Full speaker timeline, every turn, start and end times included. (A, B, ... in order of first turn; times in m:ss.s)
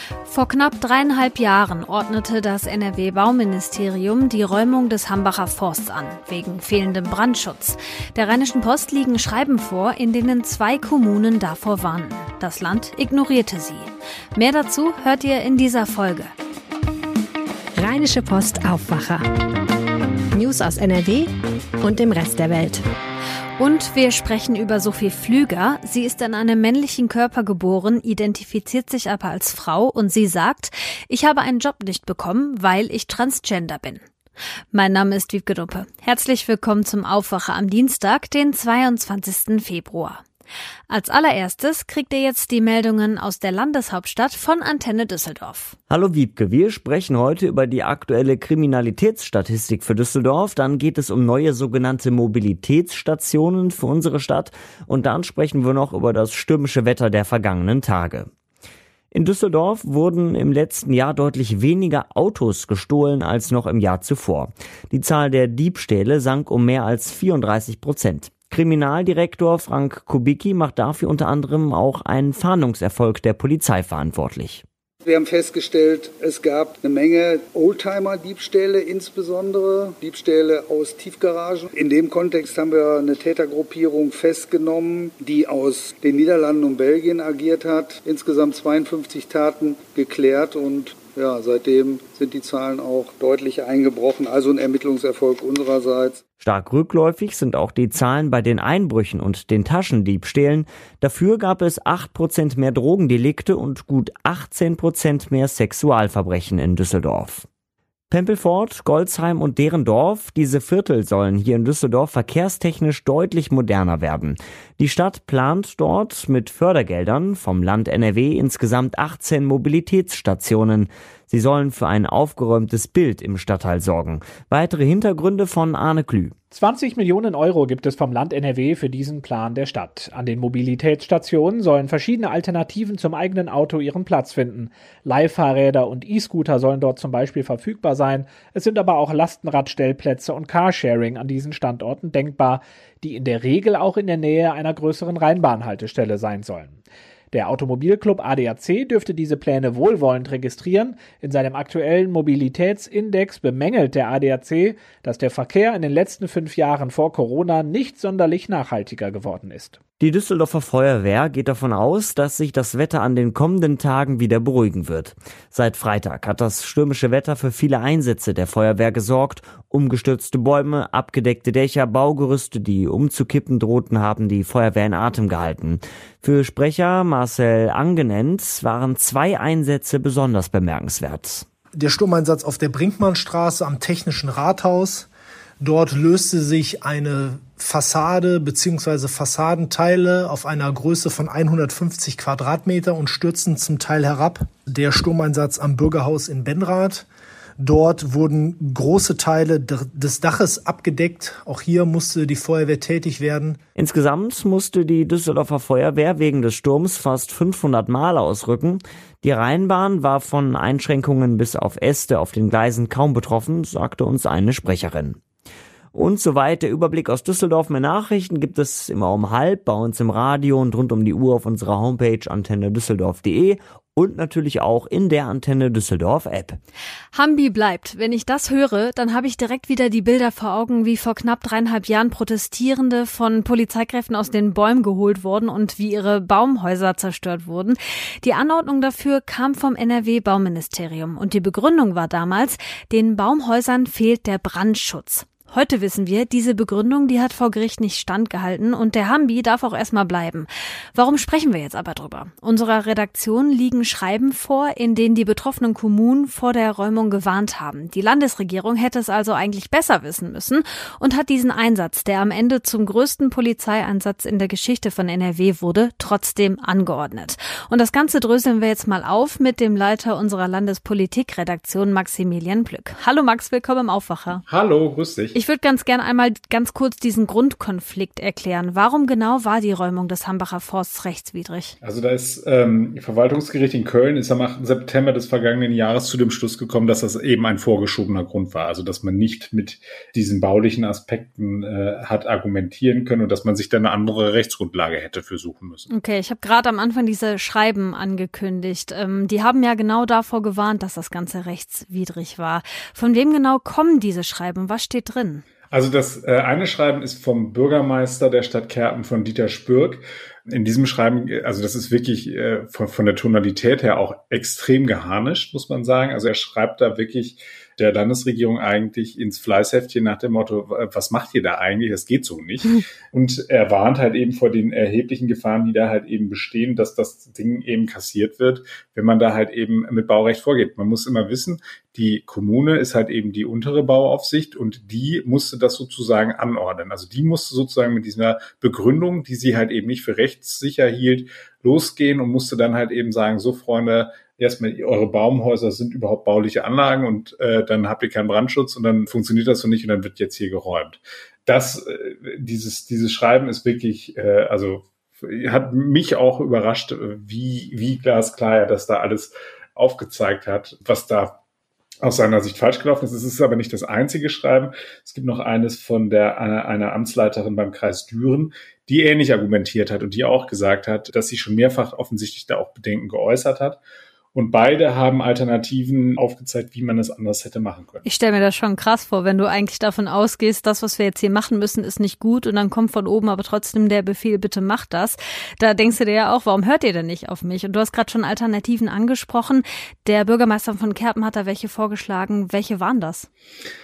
0:00.3-0:16.3 A
0:17.8-0:19.3 B
0:20.3-0:22.9 B
0:23.6-0:34.0 A
0:34.7-0:40.2 A
0:40.9-0:45.8 A
0:45.9-0:58.3 C
0:59.1-1:14.6 C
1:15.0-1:36.2 D
1:36.4-1:47.4 C
1:48.1-2:06.3 C
2:06.5-2:26.8 E
2:27.3-2:39.8 E
2:40.0-3:01.4 C
3:01.8-3:05.1 F
3:05.6-3:17.1 F
3:17.6-3:23.6 F
3:23.8-3:35.2 C
3:35.9-3:46.6 C
3:47.1-4:34.4 A
4:34.5-4:35.4 G
4:35.3-4:41.8 A
4:41.8-4:55.9 G
4:55.9-5:05.4 A
5:05.7-6:01.4 G
6:02.0-6:13.8 G
6:14.3-6:18.1 G
6:18.0-6:33.3 A